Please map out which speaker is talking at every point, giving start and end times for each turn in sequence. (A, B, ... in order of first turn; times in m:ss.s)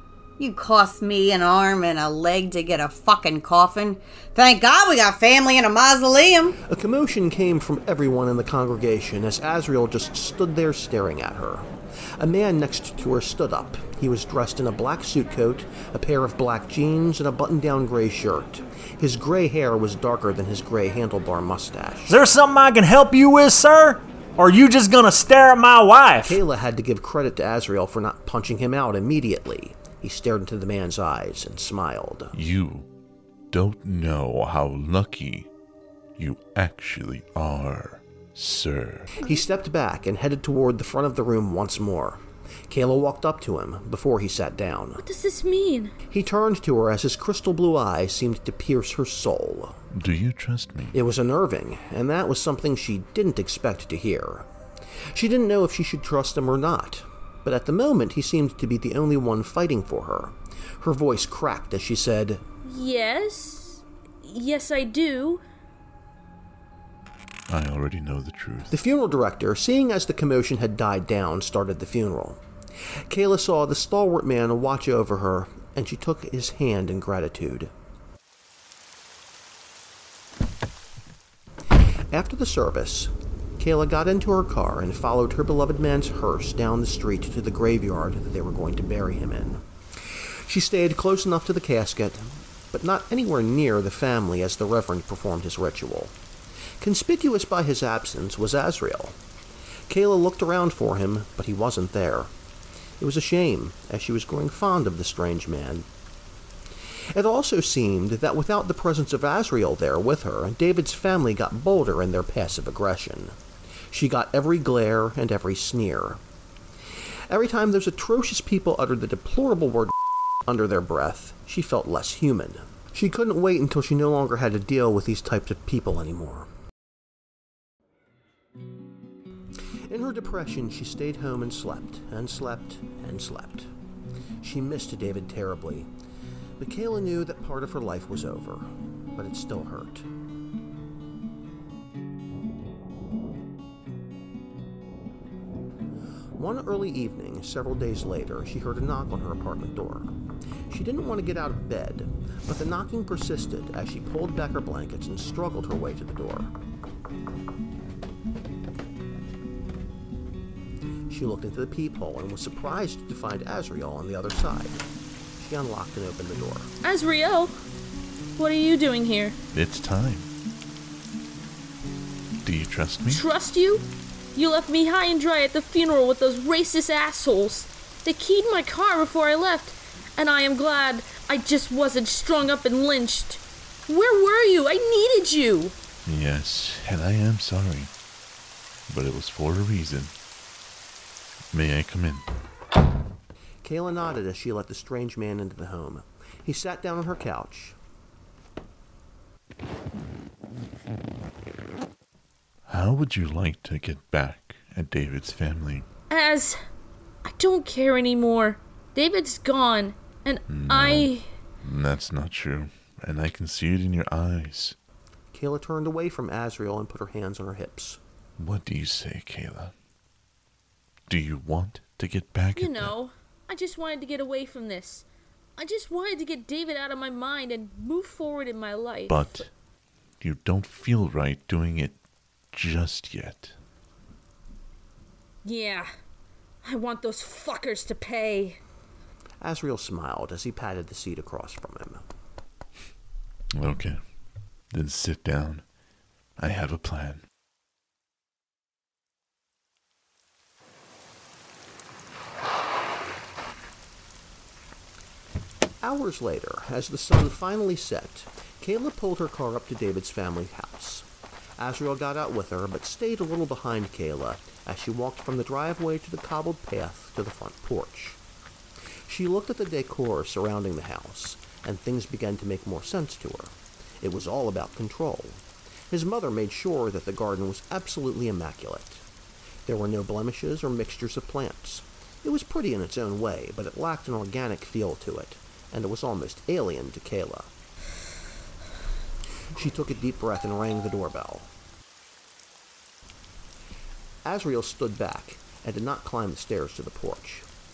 0:00.4-0:06.6 A
0:06.6-0:22.2 B
0:22.1-0:26.4 C
0:26.2-0:32.3 B
0:32.3-0:32.9 D
0:33.5-0:35.5 D
0:36.2-0:39.1 D
0:39.2-0:45.0 B
0:45.0-0:45.9 E
0:46.1-0:49.8 B
0:49.9-0:51.0 D
0:50.9-0:54.5 B
0:55.1-1:02.4 B
1:02.6-1:05.4 E
1:07.5-1:08.7 D
1:08.7-1:12.4 B
1:13.0-1:17.7 B
1:22.1-1:36.1 B
1:36.8-1:39.2 B
1:39.9-1:42.3 B
1:43.0-1:45.9 B
1:47.1-1:53.4 B
1:53.9-1:56.2 B
1:57.3-2:06.5 B
2:09.9-2:13.7 B
2:14.4-2:15.9 B
2:16.6-2:20.1 B
2:26.4-2:30.1 B
2:30.7-2:36.5 B
2:41.1-2:44.8 B
2:45.4-2:46.7 B
2:46.8-2:47.6 E
2:48.4-2:49.4 E
2:49.5-2:50.3 D
2:52.4-2:53.2 D
2:53.1-3:05.8 E
3:06.0-3:07.9 D
3:08.9-3:10.1 D
3:11.5-3:12.2 D
3:13.6-3:17.8 B
3:22.7-3:25.9 D
3:26.1-3:26.6 E
3:27.2-3:31.2 E
3:30.5-3:34.8 D
3:35.3-3:38.0 B
3:38.4-3:39.8 D
3:41.1-3:42.9 D
3:42.6-3:45.0 E
3:45.6-3:49.4 E
3:49.1-3:49.5 D
3:50.2-3:52.0 D
3:52.5-3:53.6 D
3:55.4-3:55.9 E
3:56.6-3:58.6 E
3:59.4-4:02.0 B
4:03.5-4:04.0 D
4:04.7-4:05.6 D
4:06.4-4:07.2 D
4:15.8-4:28.2 B
4:29.0-4:39.0 B
4:39.6-4:47.5 B
4:49.5-4:51.5 B
4:54.2-4:57.5 B